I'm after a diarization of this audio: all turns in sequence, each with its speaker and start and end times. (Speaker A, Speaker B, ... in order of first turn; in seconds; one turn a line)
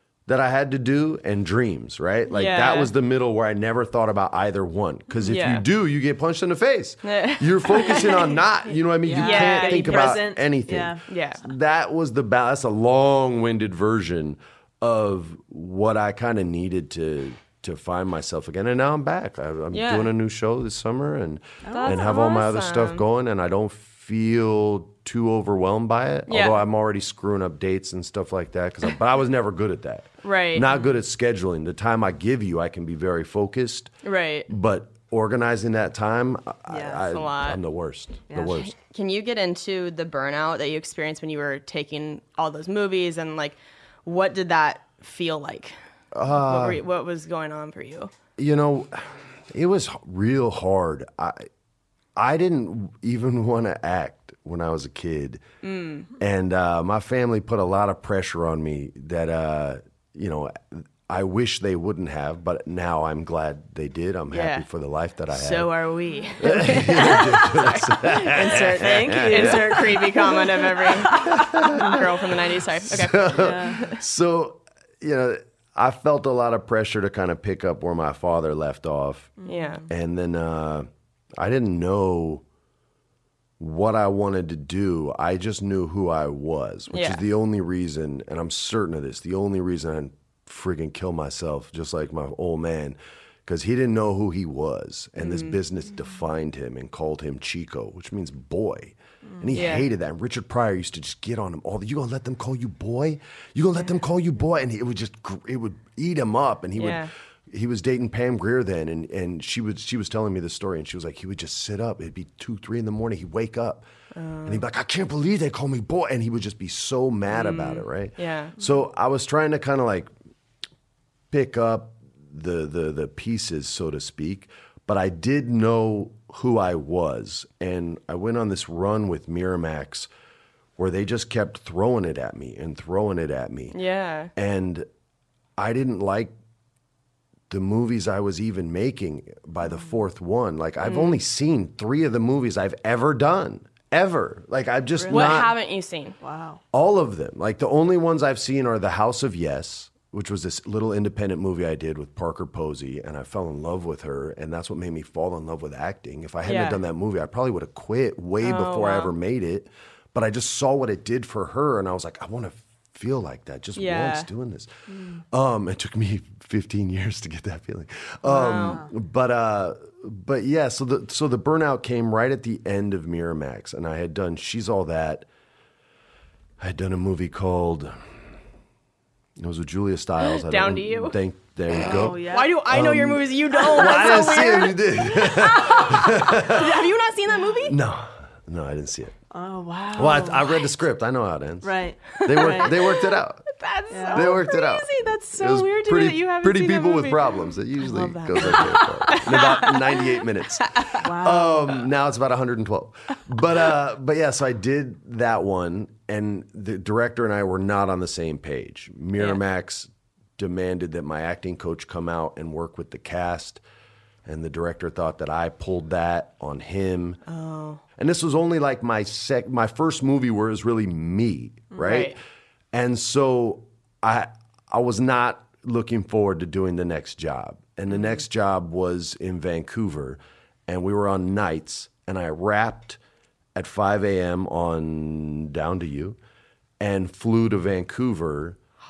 Speaker A: 0.3-33.9
Speaker B: 2.3-2.9
Speaker B: 5.2-5.6
Speaker B: 7.0-8.4
Speaker C: 9.1-11.0
Speaker B: 9.1-10.2
Speaker B: 11.1-11.4
Speaker B: 19.7-20.1
Speaker C: 21.6-22.0
Speaker B: 21.7-23.0
Speaker B: 26.3-26.6
Speaker B: 30.2-30.7
Speaker B: 34.0-34.5
Speaker A: 34.5-38.7
Speaker C: 36.7-37.0
Speaker B: 37.0-37.6
Speaker C: 38.3-38.5
Speaker B: 38.6-45.8
Speaker A: 46.1-46.8
Speaker B: 46.3-48.1
Speaker A: 48.4-51.5
Speaker A: 52.1-55.4
Speaker B: 55.6-56.1
Speaker A: 56.2-65.7
Speaker B: 64.3-64.7
Speaker B: 65.3-74.0
Speaker A: 66.4-70.0
Speaker C: 68.3-72.0
Speaker A: 71.1-72.3
Speaker A: 72.8-82.4
Speaker C: 73.3-73.7
Speaker C: 79.4-79.8
Speaker B: 79.5-79.8
Speaker A: 83.6-113.8
Speaker B: 86.9-87.2
Speaker B: 95.2-95.6
Speaker C: 99.2-99.6
Speaker B: 99.5-99.9
Speaker B: 106.8-107.1
Speaker B: 114.1-114.6
Speaker A: 114.4-120.1
Speaker B: 117.3-118.5
Speaker A: 121.3-130.1
Speaker A: 130.8-133.8
Speaker B: 133.7-134.3
Speaker A: 134.3-134.9
Speaker A: 135.6-136.3
Speaker A: 137.5-145.5
Speaker B: 140.8-141.2
Speaker C: 144.9-145.5
Speaker B: 145.1-146.2
Speaker C: 146.2-146.6
Speaker A: 146.7-164.7
Speaker B: 156.4-156.8
Speaker B: 158.4-159.1
Speaker B: 163.8-164.3
Speaker C: 164.9-165.2
Speaker A: 165.3-175.3
Speaker B: 168.3-168.8
Speaker C: 168.3-168.9
Speaker A: 176.6-178.0
Speaker A: 179.4-186.9
Speaker B: 180.2-181.2
Speaker C: 181.8-182.5
Speaker B: 181.8-187.8
Speaker A: 187.7-189.2
Speaker C: 189.3-190.5
Speaker A: 189.9-193.5
Speaker C: 191.6-192.7
Speaker B: 192.2-201.0
Speaker C: 193.9-194.4
Speaker A: 194.1-213.6
Speaker C: 201.0-201.7
Speaker A: 214.2-217.2
Speaker B: 217.3-217.8
Speaker A: 218.0-222.2
Speaker B: 221.8-222.1
Speaker A: 222.7-233.0
Speaker B: 227.9-228.2
Speaker A: 233.5-236.2
Speaker A: 236.8-238.6